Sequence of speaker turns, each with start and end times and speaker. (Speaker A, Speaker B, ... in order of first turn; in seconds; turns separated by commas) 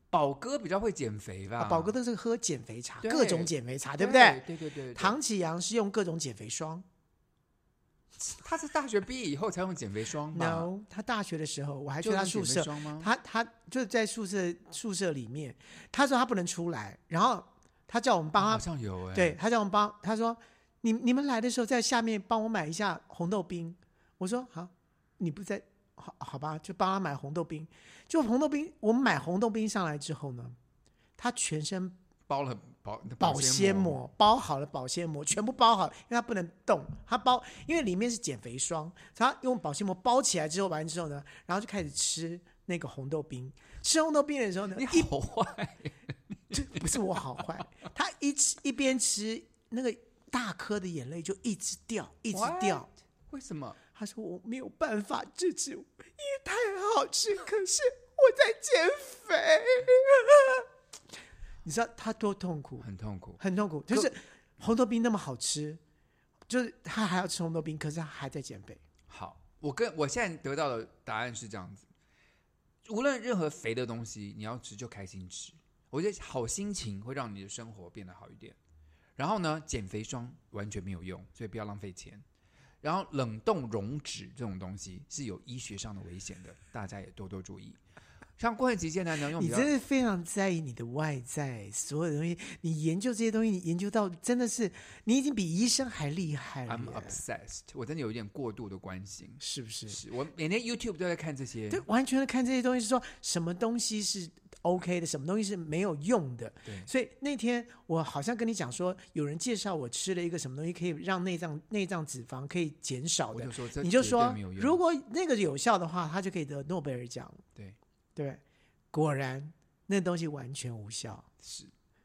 Speaker A: 0.1-1.9, Speaker B: 1.6-4.4, Speaker A: 3.0-5.2, Speaker B: 4.9-6.8, Speaker A: 8.2-10.7, Speaker B: 10.3-30.6, Speaker A: 12.0-13.1, Speaker A: 18.4-19.4, Speaker B: 31.2-32.0, Speaker A: 32.3-34.1, Speaker B: 33.2-45.1, Speaker A: 44.7-47.0, Speaker B: 46.5-52.9, Speaker A: 52.3-53.8, Speaker B: 53.9-60.7, Speaker B: 61.6-62.9, Speaker A: 62.8-64.1, Speaker B: 63.4-65.8, Speaker B: 66.5-68.8, Speaker A: 69.1-71.9, Speaker A: 72.8-78.5, Speaker A: 79.2-82.2, Speaker A: 82.8-87.8, Speaker A: 88.4-89.7, Speaker B: 89.4-97.2, Speaker A: 96.7-101.8, Speaker B: 99.4-100.0, Speaker B: 101.7-117.4, Speaker A: 113.3-114.8, Speaker B: 118.2-118.4, Speaker B: 118.9-121.3, Speaker A: 121.4-121.7